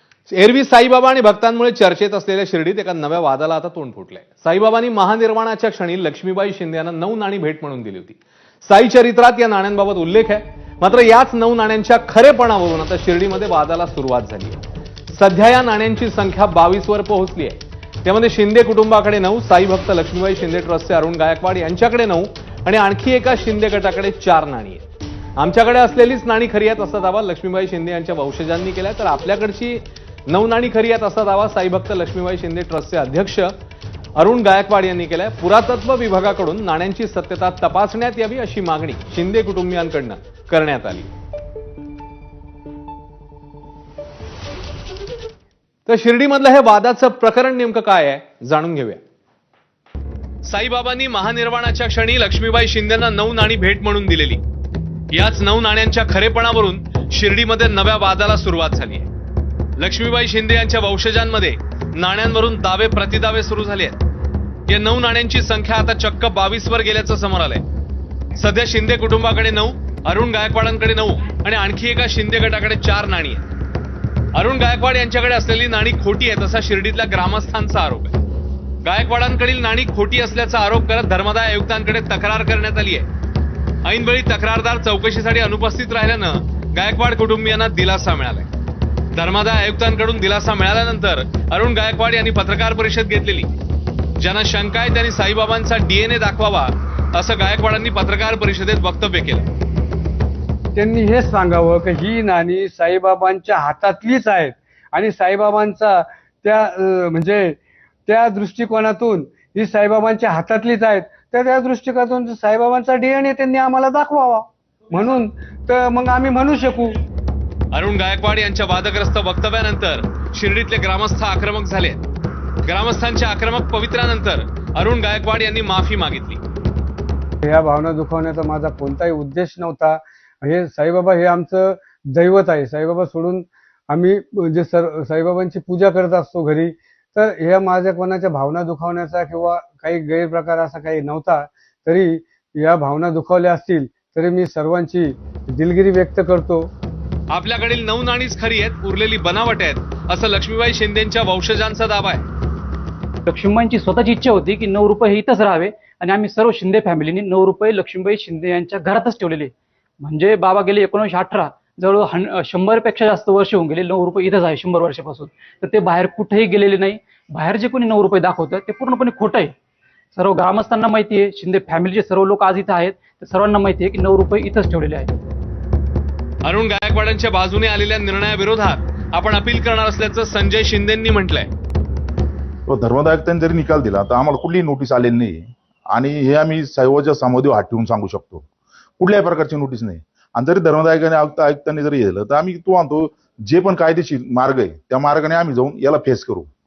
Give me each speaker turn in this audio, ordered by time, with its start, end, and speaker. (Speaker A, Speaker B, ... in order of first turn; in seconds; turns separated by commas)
Speaker A: 0.3-14.6, Speaker A: 15.1-24.8, Speaker A: 25.4-33.5, Speaker A: 34.1-41.1, Speaker A: 45.9-49.0, Speaker A: 50.4-54.4, Speaker A: 55.1-59.1, Speaker A: 59.8-64.0, Speaker A: 64.7-67.6, Speaker A: 68.3-73.4, Speaker A: 74.3-78.2, Speaker A: 78.8-83.0, Speaker A: 83.8-88.5, Speaker A: 89.1-93.5, Speaker A: 94.2-99.5, Speaker B: 100.7-117.0, Speaker A: 117.7-122.0, Speaker A: 122.6-126.4, Speaker B: 127.4-146.7, Speaker A: 147.3-152.2, Speaker C: 153.2-169.5, Speaker C: 170.1-175.1, Speaker A: 176.4-181.5, Speaker D: 182.7-188.4, Speaker D: 189.0-196.5